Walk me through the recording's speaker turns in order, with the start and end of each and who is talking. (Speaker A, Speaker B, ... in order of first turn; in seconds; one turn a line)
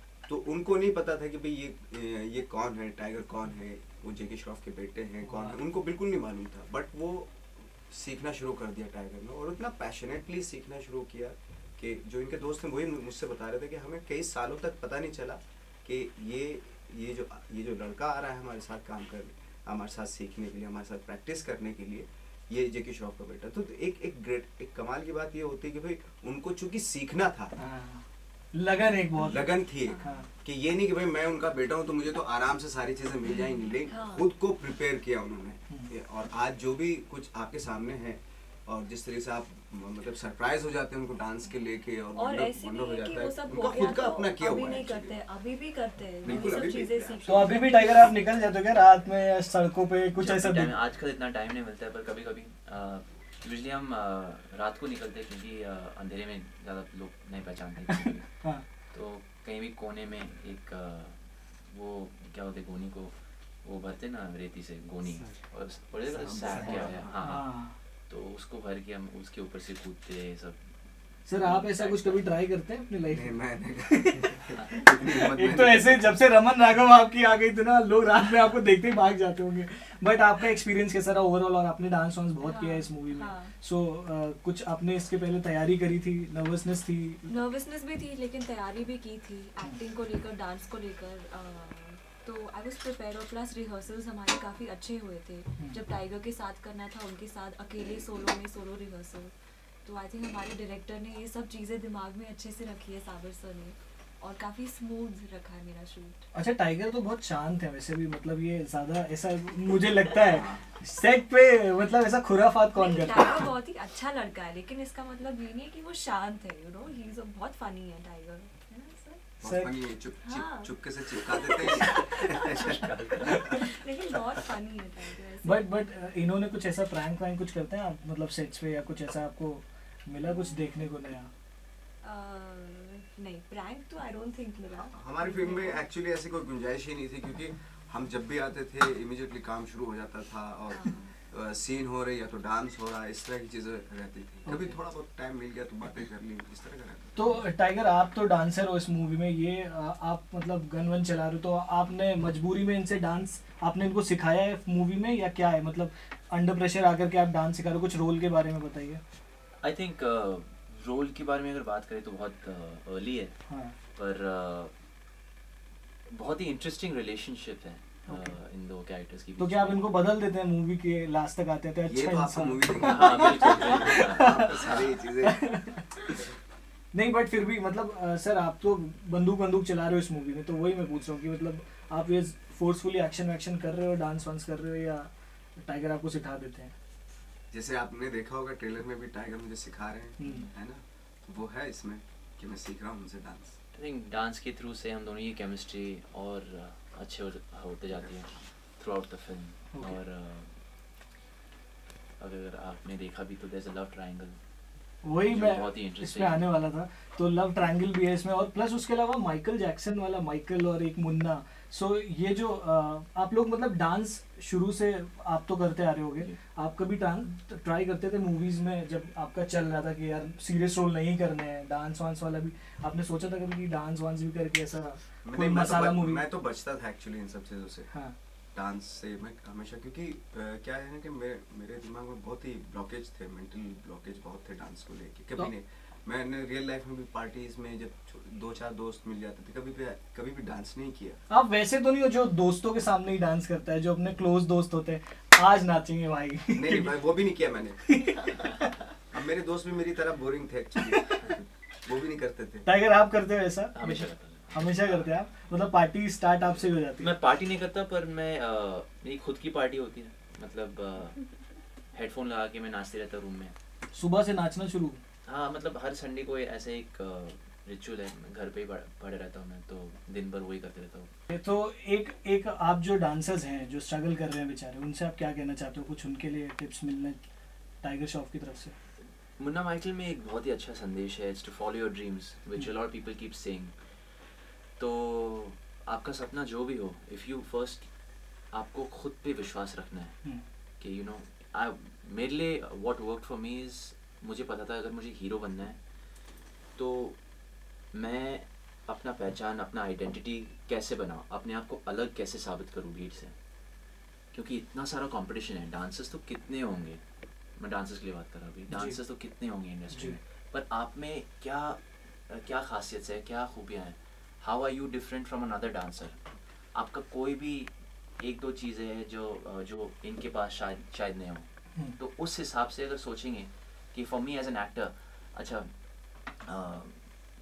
Speaker A: 0.3-27.6
Speaker B: 5.2-5.6
Speaker B: 27.6-30.3
Speaker A: 29.2-45.2
Speaker C: 29.8-30.1
Speaker C: 33.3-34.3
Speaker C: 42.1-48.1
Speaker A: 46.2-47.9
Speaker B: 47.3-50.7
Speaker D: 50.1-72.2
Speaker B: 57.9-58.6
Speaker A: 66.0-67.2
Speaker B: 66.6-67.8
Speaker B: 71.2-87.3
Speaker A: 73.1-76.2
Speaker C: 82.4-83.5
Speaker C: 87.3-106.3
Speaker B: 106.3-113.5
Speaker A: 110.3-110.6
Speaker C: 112.8-119.3
Speaker A: 119.4-122.9
Speaker B: 119.4-119.8
Speaker C: 120.2-121.9
Speaker C: 122.4-122.8
Speaker D: 122.4-123.7
Speaker B: 123.3-123.6
Speaker C: 123.5-125.7
Speaker B: 125.4-131.3
Speaker C: 130.2-130.7
Speaker C: 132.0-135.8
Speaker A: 134.7-147.2
Speaker C: 140.7-141.1
Speaker B: 144.4-144.8
Speaker B: 147.2-159.0
Speaker D: 159.6-163.3
Speaker B: 163.5-163.8
Speaker D: 163.9-164.7
Speaker D: 166.1-169.9
Speaker B: 168.1-168.4
Speaker B: 169.4-174.6
Speaker A: 171.8-175.6
Speaker D: 172.8-174.8
Speaker B: 175.2-176.1
Speaker B: 176.9-186.7
Speaker A: 187.5-193.6
Speaker B: 190.2-190.5
Speaker D: 190.2-190.5
Speaker D: 193.7-200.6
Speaker B: 199.7-200.0
Speaker D: 202.2-204.4
Speaker B: 205.0-226.2
Speaker D: 205.2-206.4
Speaker A: 225.2-227.9
Speaker B: 227.9-228.2
Speaker A: 228.5-241.2
Speaker B: 241.3-247.0
Speaker A: 246.5-247.9
Speaker B: 247.8-248.7
Speaker A: 249.1-252.7
Speaker B: 252.7-257.1
Speaker D: 253.7-255.1
Speaker D: 256.4-261.3
Speaker D: 261.9-263.5
Speaker B: 263.9-265.0
Speaker D: 265.3-271.1
Speaker B: 271.3-277.3
Speaker B: 277.8-278.7
Speaker D: 279.4-283.8
Speaker D: 284.8-287.9
Speaker D: 288.5-290.2
Speaker D: 290.8-295.8
Speaker D: 296.8-297.2
Speaker D: 297.9-303.3
Speaker D: 304.3-307.0
Speaker D: 307.6-316.2
Speaker B: 308.7-309.0
Speaker B: 309.9-310.2
Speaker D: 316.7-325.7
Speaker D: 326.4-327.1